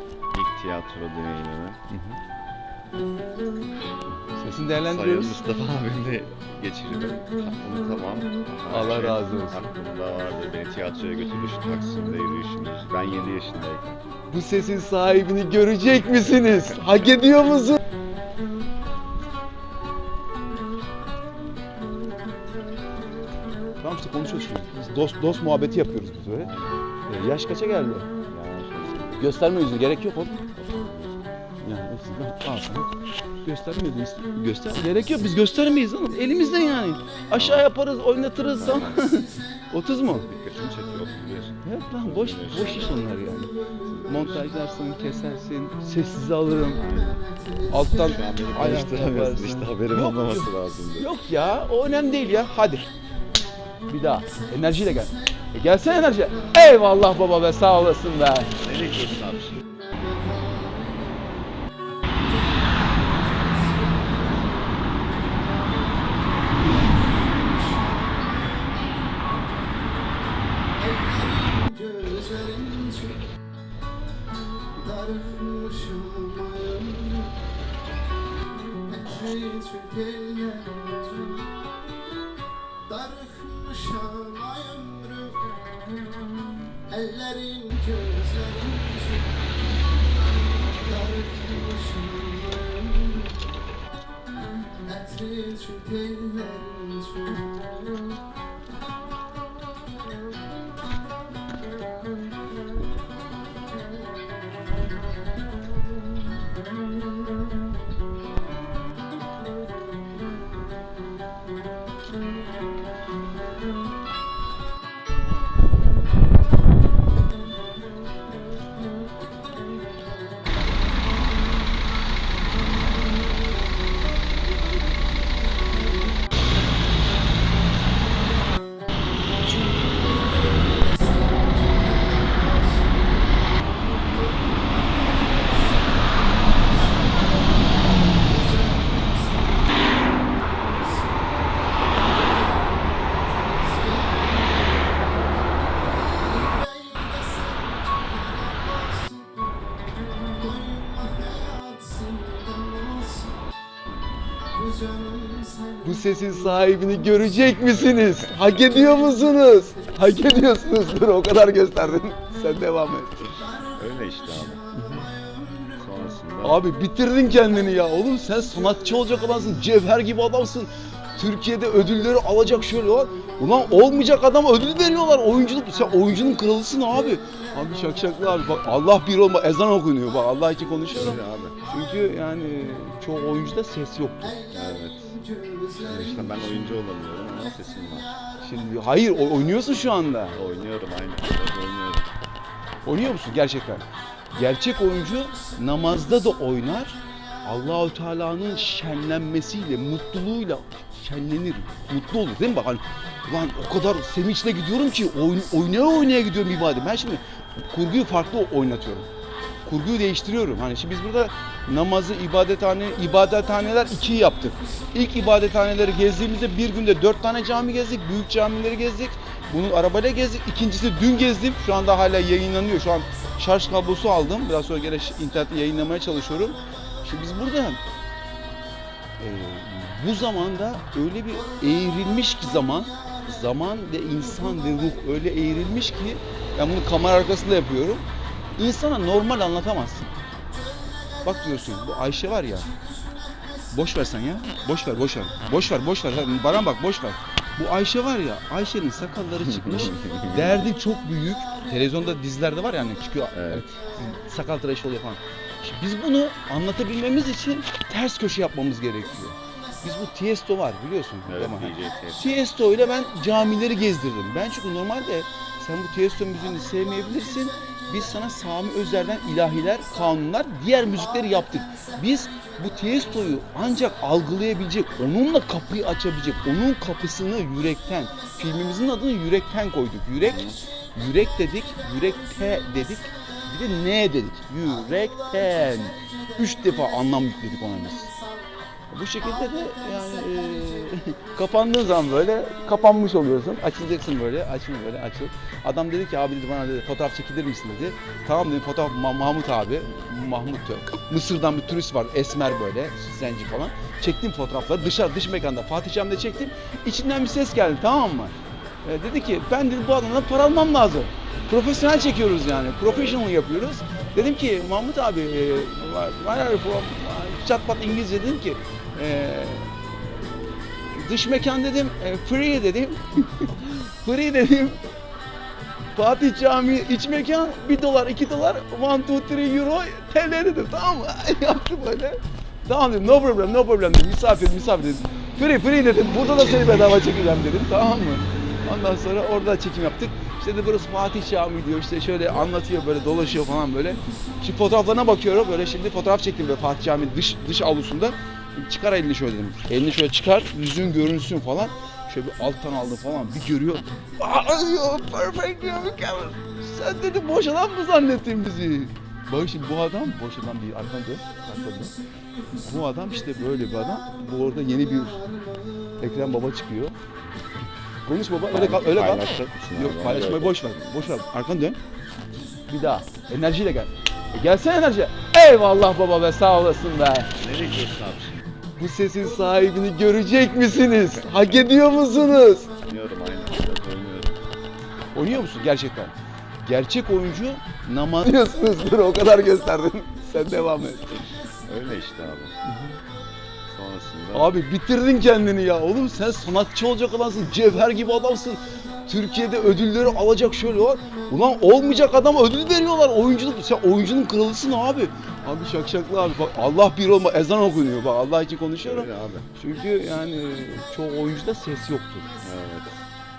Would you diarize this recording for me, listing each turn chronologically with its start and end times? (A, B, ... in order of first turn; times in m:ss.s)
0:00.3-0:01.8 A
0:01.9-0:02.2 B
0:04.3-0:05.4 B
0:04.8-0:14.0 A
0:08.7-0:09.6 B
0:14.3-0:17.8 B
0:23.8-0:26.5 B
0:26.3-0:26.9 A
0:27.1-0:28.1 B
0:28.3-0:29.4 A
0:29.2-0:30.4 B
0:30.6-0:31.2 A
0:31.6-0:32.9 B
0:33.4-0:40.3 B
0:37.3-0:37.7 A
0:38.6-0:39.2 A
0:40.2-0:43.0 A
0:41.6-0:46.9 B
0:43.8-0:44.5 A
0:46.8-0:47.2 A
0:47.7-0:52.9 B
0:48.0-0:51.1 A
0:53.9-0:58.5 B
0:58.6-0:59.6 A
1:11.3-1:12.6 C
1:15.3-1:17.0 B
1:19.0-1:21.0 C
1:23.1-1:25.4 C
1:26.9-1:29.0 C
1:31.0-1:32.8 C
1:35.1-1:37.0 C
2:30.8-2:32.9 C
2:35.8-2:43.1 B
2:43.7-2:44.7 A
2:44.7-2:45.1 B
2:45.7-2:46.6 A
2:46.4-3:04.4 B
3:00.9-3:01.6 A
3:04.5-3:05.2 A
3:05.8-3:08.2 A
3:05.9-3:06.8 B
3:08.4-3:10.4 B
3:10.3-3:12.1 A
3:12.8-3:29.1 B
3:29.6-3:47.8 B
3:49.2-3:58.0 B
3:58.6-4:00.1 B
4:01.2-4:02.7 B
4:03.7-4:48.2 B
4:09.7-4:10.6 A
4:13.3-4:13.7 A
4:21.3-4:22.4 A
4:40.2-4:40.6 A
4:48.9-5:19.7 B
5:20.7-5:24.8 B
5:26.0-6:02.0 B
6:02.6-6:05.3 B
6:06.0-6:07.0 B
6:08.1-6:11.8 B
6:08.5-6:10.9 A
6:12.7-6:17.3 B
6:17.4-6:18.4 A
6:18.8-6:22.7 B
6:22.8-6:24.4 A
6:25.1-6:31.2 B
6:31.7-6:32.6 A
6:32.6-6:33.0 B
6:33.7-6:34.6 A
6:34.3-6:52.3 B
6:48.8-6:49.5 A
6:52.4-6:53.0 A